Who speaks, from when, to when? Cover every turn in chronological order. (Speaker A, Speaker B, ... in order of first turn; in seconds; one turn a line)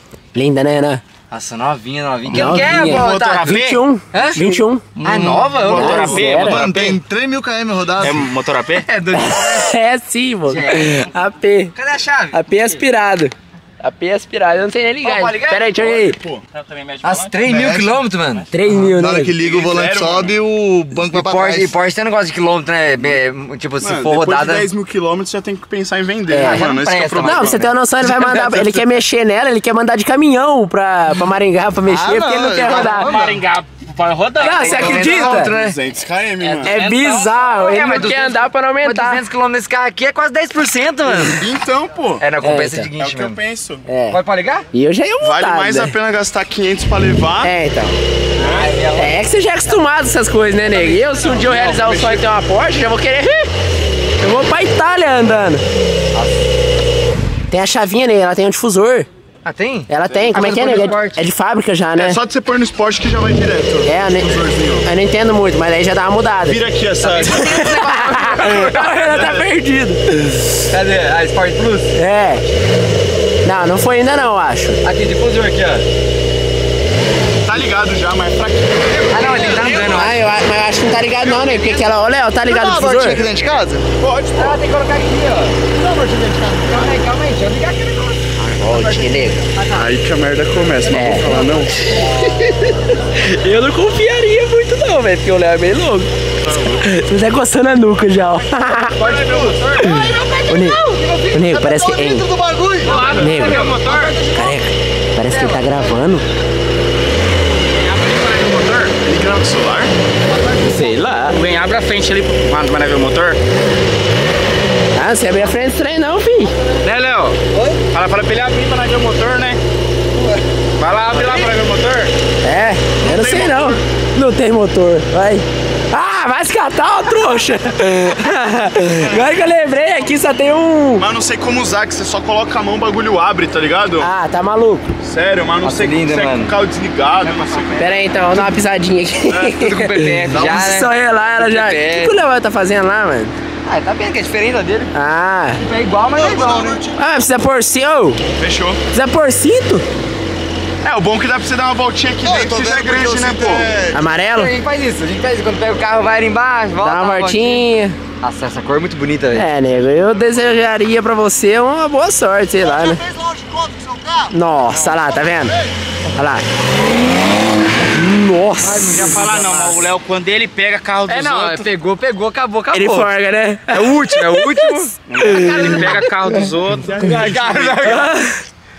Speaker A: 0.3-1.0
Speaker B: 1.3-4.4
Speaker A: 2.3-4.8
Speaker C: 2.4-3.4
Speaker C: 5.0-7.0
Speaker B: 5.0-6.4
Speaker D: 5.6-6.2
Speaker A: 5.7-6.6
Speaker E: 6.2-8.3
Speaker C: 8.0-8.9
Speaker B: 8.8-9.8
Speaker A: 9.1-11.8
Speaker B: 10.5-11.1
Speaker B: 11.7-12.8
Speaker A: 12.3-16.2
Speaker C: 15.0-15.6
Speaker D: 15.7-16.4
Speaker C: 16.5-17.8
Speaker B: 17.0-18.5
Speaker E: 17.4-18.0
Speaker A: 18.5-19.4
Speaker E: 18.6-21.8
Speaker D: 19.4-20.4
Speaker B: 20.9-24.7
Speaker D: 23.8-28.9
Speaker A: 26.3-33.1
Speaker B: 26.4-27.8
Speaker E: 31.9-33.5
Speaker C: 32.7-35.1
Speaker A: 34.4-35.6
Speaker B: 34.4-35.8
Speaker D: 34.7-36.7
Speaker C: 36.4-38.2
Speaker A: 36.6-39.2
Speaker B: 37.5-41.5
Speaker D: 41.1-42.3
Speaker B: 42.2-43.4
Speaker A: 42.4-42.9
Speaker D: 43.0-43.9
Speaker A: 43.9-44.2
Speaker B: 44.1-44.6
Speaker A: 44.7-46.0
Speaker D: 45.2-47.5
Speaker A: 47.4-48.0
Speaker D: 48.4-48.8
Speaker B: 48.4-49.3
Speaker A: 48.9-53.5
Speaker C: 50.7-52.2
Speaker B: 51.4-52.1
Speaker A: 54.2-55.6
Speaker B: 56.1-56.4
Speaker A: 57.5-59.1
Speaker B: 59.5-61.2
Speaker A: 59.9-62.2
Speaker D: 60.1-60.5
Speaker D: 62.0-64.9
Speaker A: 63.9-66.7
Speaker D: 66.5-67.7
Speaker C: 67.1-68.7
Speaker B: 67.2-68.7
Speaker A: 67.2-70.3
Speaker D: 68.8-69.5
Speaker B: 70.7-71.9
Speaker A: 71.9-72.5
Speaker A: 73.4-74.8
Speaker B: 74.8-75.8
Speaker D: 77.4-79.5
Speaker B: 79.0-80.2
Speaker C: 79.1-80.1
Speaker A: 79.7-83.2
Speaker E: 82.5-83.9
Speaker D: 84.0-84.6
Speaker B: 84.3-85.6
Speaker E: 85.7-87.0
Speaker B: 86.6-89.9
Speaker A: 88.6-89.5
Speaker D: 89.7-91.7
Speaker A: 90.9-91.3
Speaker A: 91.9-96.1
Speaker D: 96.4-96.9
Speaker A: 96.7-99.0
Speaker C: 99.0-100.1
Speaker B: 99.0-101.4
Speaker A: 99.8-102.2
Speaker E: 101.3-103.2
Speaker C: 102.8-104.2
Speaker B: 102.8-104.5
Speaker A: 103.2-103.6
Speaker A: 104.3-106.3
Speaker B: 105.3-105.6
Speaker C: 107.7-109.0
Speaker D: 109.0-109.9
Speaker E: 110.2-111.0
Speaker A: 110.6-111.4
Speaker C: 111.3-113.4
Speaker A: 115.0-116.5
Speaker C: 116.8-117.4
Speaker E: 117.5-117.8
Speaker C: 117.9-119.6
Speaker C: 120.8-122.1
Speaker A: 122.4-131.1
Speaker D: 123.0-123.8
Speaker D: 131.0-134.1
Speaker A: 134.0-134.9
Speaker D: 135.0-137.9
Speaker B: 135.6-136.5
Speaker B: 137.5-137.8
Speaker A: 137.8-143.3
Speaker B: 139.4-142.2
Speaker B: 143.6-144.9
Speaker A: 144.9-145.6
Speaker B: 145.6-146.8
Speaker E: 146.1-147.0
Speaker A: 147.0-148.2
Speaker D: 148.3-148.8
Speaker A: 148.9-149.9
Speaker D: 150.8-153.7
Speaker E: 152.2-154.1
Speaker A: 153.9-154.5
Speaker B: 154.2-157.7
Speaker A: 156.8-158.0
Speaker B: 158.2-159.5
Speaker A: 159.3-163.0
Speaker E: 162.6-165.7
Speaker A: 164.3-165.5
Speaker A: 166.1-166.4
Speaker A: 167.9-169.1
Speaker B: 168.6-169.9
Speaker C: 168.9-171.7
Speaker B: 171.1-173.1
Speaker A: 172.7-176.5
Speaker B: 173.7-178.1
Speaker C: 175.1-178.0
Speaker A: 177.8-178.4